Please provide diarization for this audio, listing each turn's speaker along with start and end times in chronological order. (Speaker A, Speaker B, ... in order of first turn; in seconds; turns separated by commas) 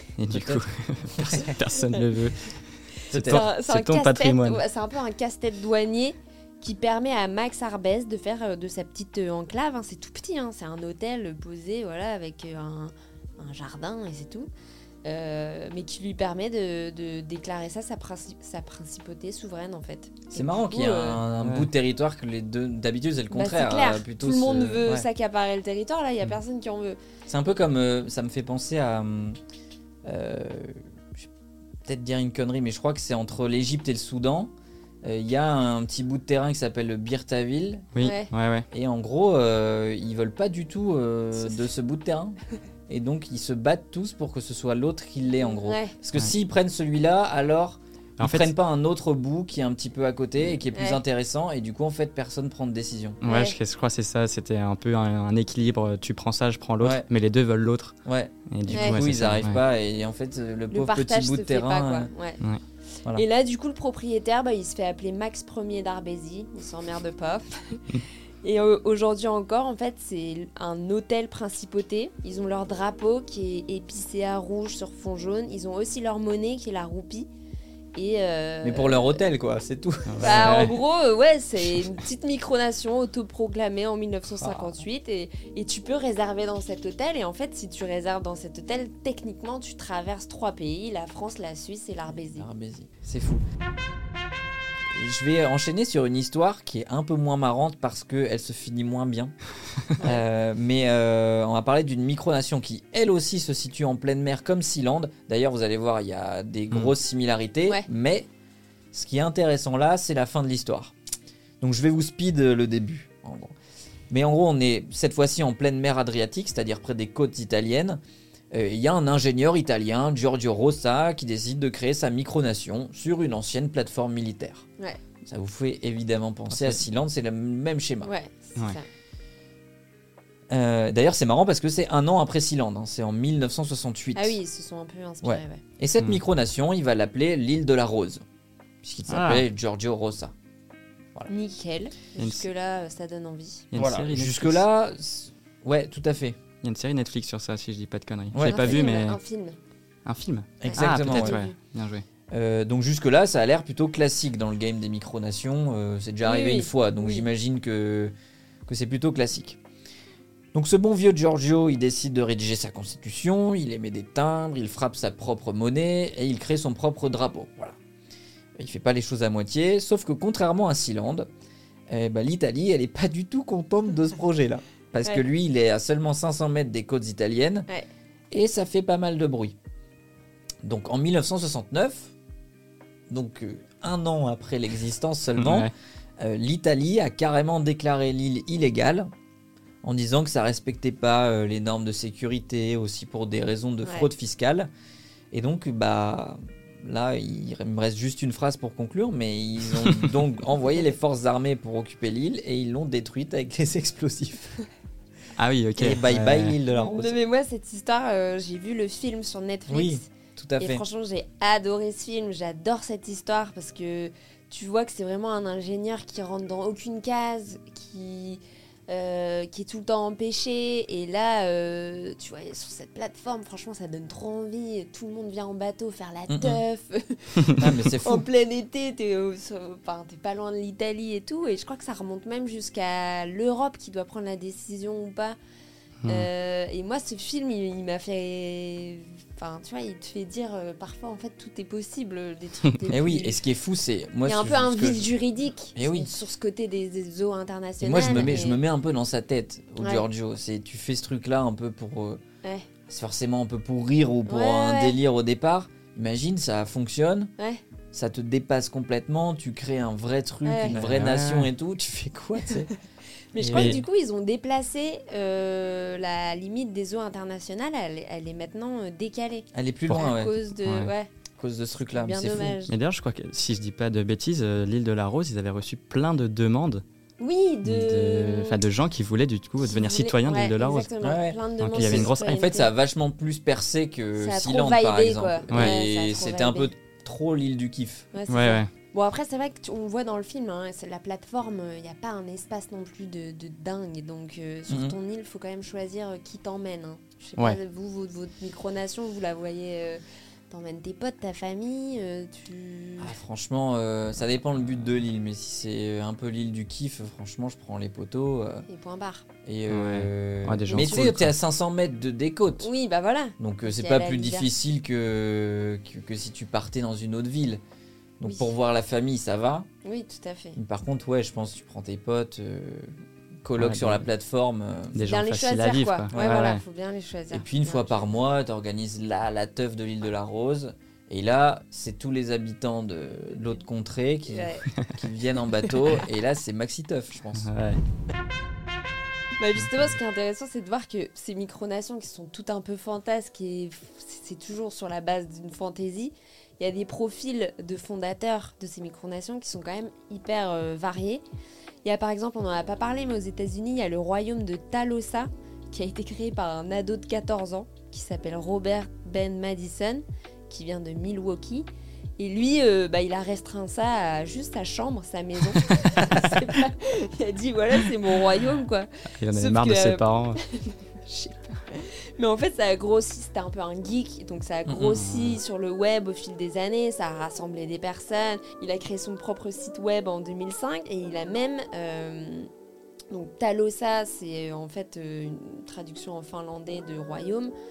Speaker A: 0.2-4.6, Speaker B: 0.3-1.6, Speaker C: 3.0-14.5, Speaker B: 3.1-3.5, Speaker C: 15.0-21.2, Speaker B: 20.3-25.1, Speaker A: 21.4-21.7, Speaker C: 23.3-27.0, Speaker B: 27.3-29.4, Speaker B: 30.1-31.3, Speaker B: 31.9-34.5, Speaker B: 35.0-37.9, Speaker A: 37.9-38.7, Speaker C: 38.0-38.3, Speaker B: 38.7-42.4, Speaker B: 42.9-53.2, Speaker C: 45.4-46.0, Speaker A: 48.2-48.5, Speaker C: 50.7-51.0, Speaker A: 53.2-58.0, Speaker C: 53.2-53.6, Speaker B: 56.8-57.1, Speaker B: 58.0-62.1, Speaker A: 58.5-59.6, Speaker C: 58.7-59.0, Speaker C: 60.7-62.4, Speaker C: 63.1-77.3, Speaker C: 78.0-79.2, Speaker B: 78.6-80.7, Speaker A: 80.1-80.8, Speaker C: 80.2-92.5, Speaker B: 84.4-84.8, Speaker B: 92.3-93.4, Speaker B: 94.9-99.3, Speaker C: 100.0-100.2, Speaker B: 100.0-108.3, Speaker B: 108.9-110.9, Speaker B: 111.6-113.5, Speaker B: 114.1-118.0, Speaker B: 118.5-124.7, Speaker B: 125.3-128.1, Speaker A: 126.5-126.8, Speaker C: 128.0-128.9, Speaker B: 130.5-134.4, Speaker C: 134.2-135.6, Speaker B: 135.2-138.2, Speaker B: 138.8-140.3, Speaker A: 139.1-139.4, Speaker C: 141.3-143.7, Speaker A: 142.2-142.5, Speaker A: 143.7-144.6, Speaker B: 143.8-146.4, Speaker A: 146.6-149.2, Speaker B: 148.3-148.9, Speaker C: 148.4-149.6, Speaker A: 150.1-152.1, Speaker B: 150.6-151.4, Speaker C: 150.6-151.6, Speaker B: 152.3-158.1, Speaker C: 156.2-157.3, Speaker B: 158.7-159.6, Speaker B: 160.5-167.8, Speaker B: 168.6-171.3, Speaker B: 171.9-177.7, Speaker B: 178.3-179.6, Speaker B: 180.6-182.1, Speaker B: 183.1-189.1, Speaker A: 185.4-185.7, Speaker B: 189.8-194.7, Speaker C: 193.8-194.1, Speaker B: 195.3-204.6, Speaker A: 205.4-206.6, Speaker B: 205.8-207.2, Speaker C: 206.7-235.4, Speaker B: 209.7-210.8, Speaker B: 226.3-226.6, Speaker B: 227.6-228.3, Speaker A: 236.0-236.3, Speaker C: 236.1-243.4, Speaker B: 242.9-245.1, Speaker C: 244.2-248.6, Speaker B: 245.8-246.1, Speaker B: 247.8-252.2, Speaker C: 249.8-250.1, Speaker B: 252.9-257.3, Speaker C: 254.3-255.0, Speaker B: 257.9-262.7, Speaker C: 260.4-260.8, Speaker A: 260.7-261.5, Speaker C: 263.3-271.1, Speaker B: 263.4-263.8, Speaker A: 263.5-263.8, Speaker B: 269.5-270.3, Speaker A: 269.9-270.9, Speaker B: 271.4-272.6, Speaker C: 271.9-272.8, Speaker A: 272.7-276.8, Speaker C: 277.2-278.6, Speaker A: 277.6-280.9, Speaker C: 279.6-282.7, Speaker B: 281.0-288.1, Speaker A: 281.6-282.4, Speaker C: 284.2-286.7, Speaker C: 288.1-303.1, Speaker A: 288.3-288.7, Speaker B: 294.7-295.0, Speaker B: 303.0-308.7, Speaker C: 308.7-309.3, Speaker B: 309.4-312.7, Speaker A: 309.7-311.3, Speaker C: 310.7-311.1, Speaker C: 312.6-314.5, Speaker B: 313.4-317.6, Speaker B: 318.2-319.7, Speaker C: 318.2-318.5, Speaker C: 319.8-320.6, Speaker B: 320.6-325.0, Speaker A: 323.6-324.0, Speaker A: 324.9-326.6, Speaker C: 325.0-328.1, Speaker B: 326.1-326.5, Speaker B: 327.3-337.5, Speaker C: 334.3-334.7, Speaker A: 337.4-337.8, Speaker C: 339.4-351.2, Speaker C: 351.8-382.5, Speaker A: 369.2-370.4, Speaker B: 374.7-374.9, Speaker A: 374.9-375.4, Speaker C: 383.1-387.5